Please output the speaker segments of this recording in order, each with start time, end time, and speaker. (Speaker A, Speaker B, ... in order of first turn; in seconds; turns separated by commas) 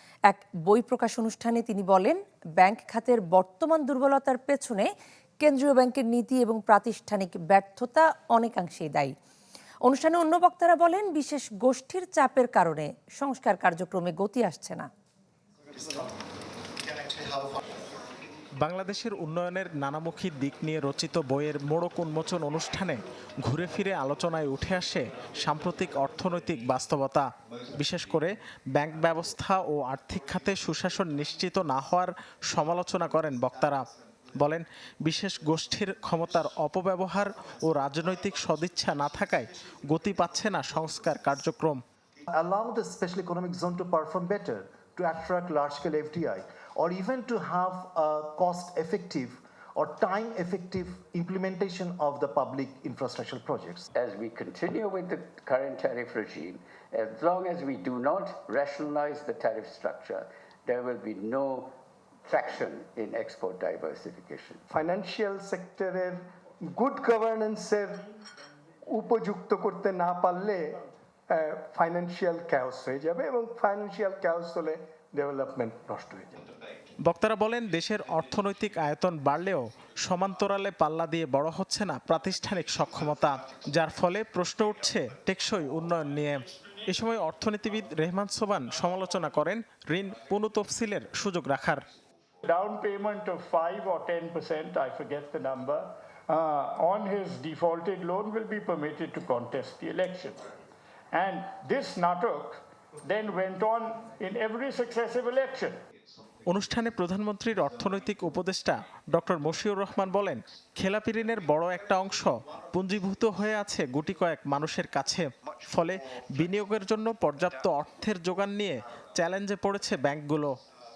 Speaker A: 0.3-4.9, Speaker A: 5.4-9.1, Speaker A: 9.8-14.9, Speaker B: 18.6-41.8, Speaker C: 42.3-53.9, Speaker D: 54.0-61.7, Speaker D: 62.3-64.6, Speaker E: 64.7-68.0, Speaker E: 68.9-76.4, Speaker B: 77.0-91.8, Speaker F: 92.5-100.5, Speaker F: 101.1-105.8, Speaker B: 106.5-120.5